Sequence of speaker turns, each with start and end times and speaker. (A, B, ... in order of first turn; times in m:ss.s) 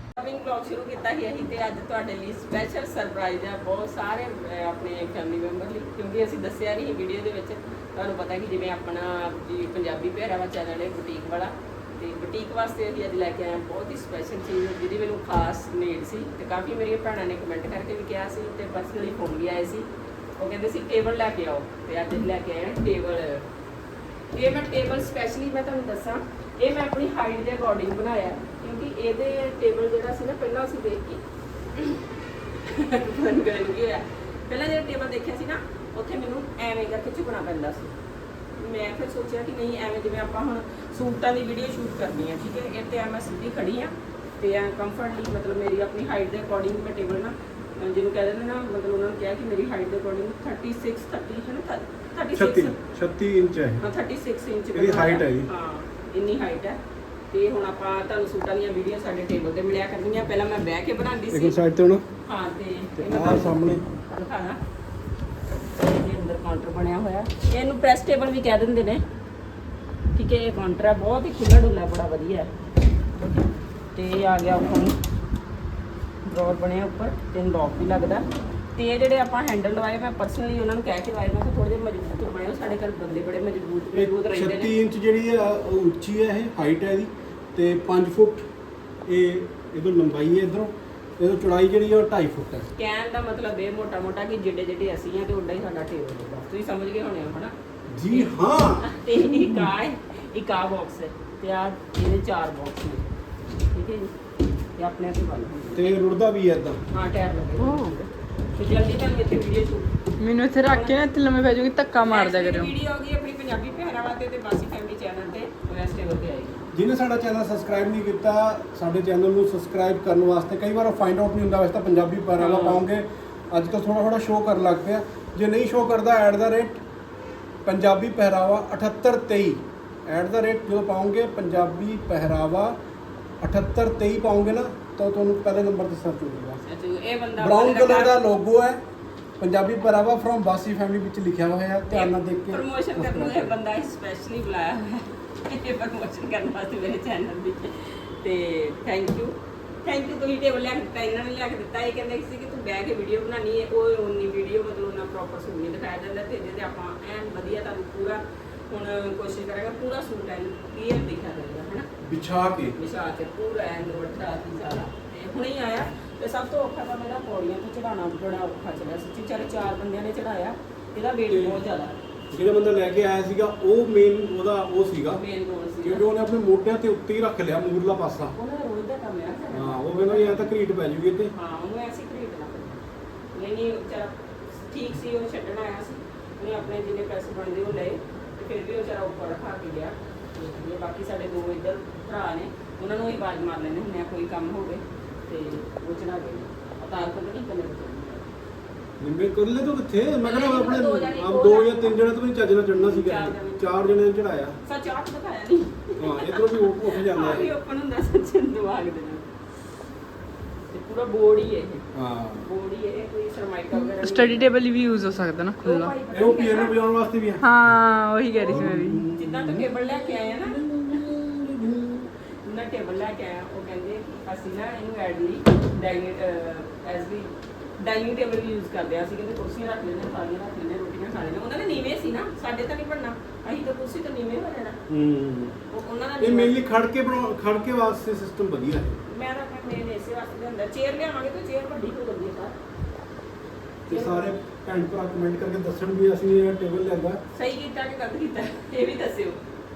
0:00.2-0:23.5 A
0:24.3-0:31.2 A
0:31.7-0:32.1 A
0:32.6-0:38.0 A
0:38.6-0:52.8 A
0:52.4-0:53.9 B
0:53.8-0:56.8 A
0:54.7-0:55.5 B
0:57.3-1:01.6 A
1:01.3-1:02.1 B
1:02.2-1:04.6 A
1:03.0-1:03.8 B
1:05.8-1:09.0 A
1:10.2-1:12.5 A
1:14.0-1:15.0 A
1:16.2-1:24.8 A
1:23.9-1:28.5 B
1:29.1-1:32.7 B
1:32.8-1:37.5 A
1:37.9-1:38.9 B
1:38.1-1:44.1 A
1:44.8-1:46.0 A
1:45.7-1:46.8 B
1:46.9-1:49.9 A
1:47.6-1:47.9 C
1:50.2-1:52.7 C
1:50.6-1:51.1 A
1:52.0-1:56.6 A
1:56.7-2:06.8 B
2:02.4-2:02.8 A
2:07.6-2:12.8 B
2:13.4-2:16.6 B
2:16.6-2:18.2 A
2:17.4-2:18.8 B
2:19.4-2:23.6 B
2:21.9-2:41.9 A
2:42.0-2:42.8 B
2:42.8-2:52.0 A
2:51.3-2:51.6 B
2:52.3-2:55.2 B
2:55.1-2:56.1 A
2:55.8-2:58.4 B
2:58.3-3:00.6 A
2:59.5-3:01.3 B
3:01.3-3:02.8 A
3:03.4-3:18.3 A
3:19.0-3:24.6 B
3:20.2-3:22.0 A
3:22.7-3:23.8 A
3:24.6-3:29.2 A
3:26.0-3:27.5 B
3:30.7-3:31.9 A
3:31.9-3:32.5 B
3:32.4-3:34.6 A
3:33.7-3:35.9 C
3:35.6-3:36.8 A
3:36.1-3:37.8 B
3:37.4-3:39.0 C
3:38.3-3:40.7 A
3:38.5-3:39.7 B
3:40.5-3:42.1 B
3:42.4-3:54.8 A
3:54.9-3:55.6 B
3:55.7-3:56.6 A
3:56.2-3:59.0 B
3:59.1-4:02.5 A
4:03.9-4:04.3 A
4:03.9-4:07.2 B
4:07.3-4:09.4 A